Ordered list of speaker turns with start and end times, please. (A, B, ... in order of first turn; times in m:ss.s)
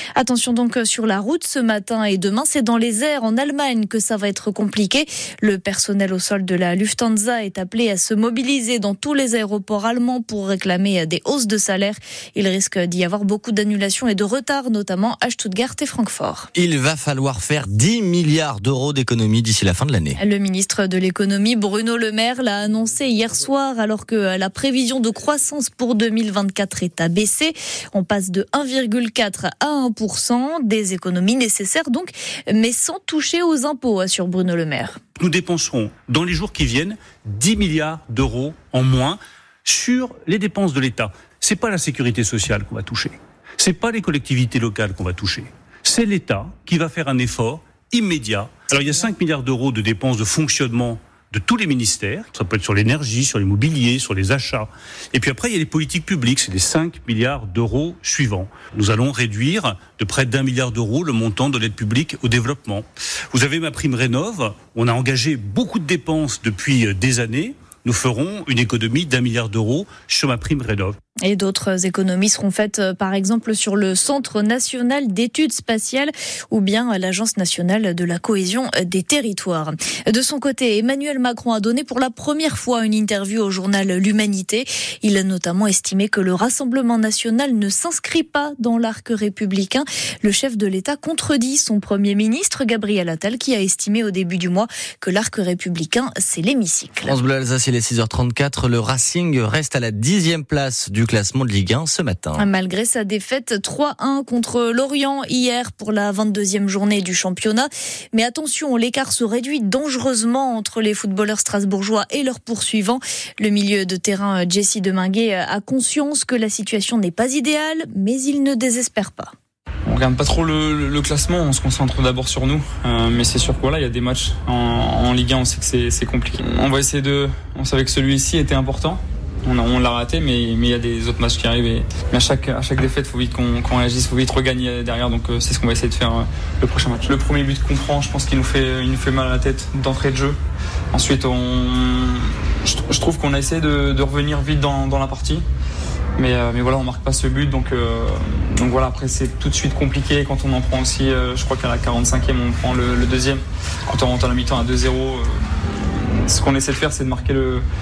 0:00.2-0:16.5 A
0:16.5-0:20.2 B
0:20.2-0:35.0 A
0:35.2-1:11.0 C
1:11.2-1:37.2 A
1:37.0-1:42.5 B
1:42.4-1:59.3 A
1:59.9-2:20.4 D
2:20.9-2:25.4 D
2:26.2-2:37.6 D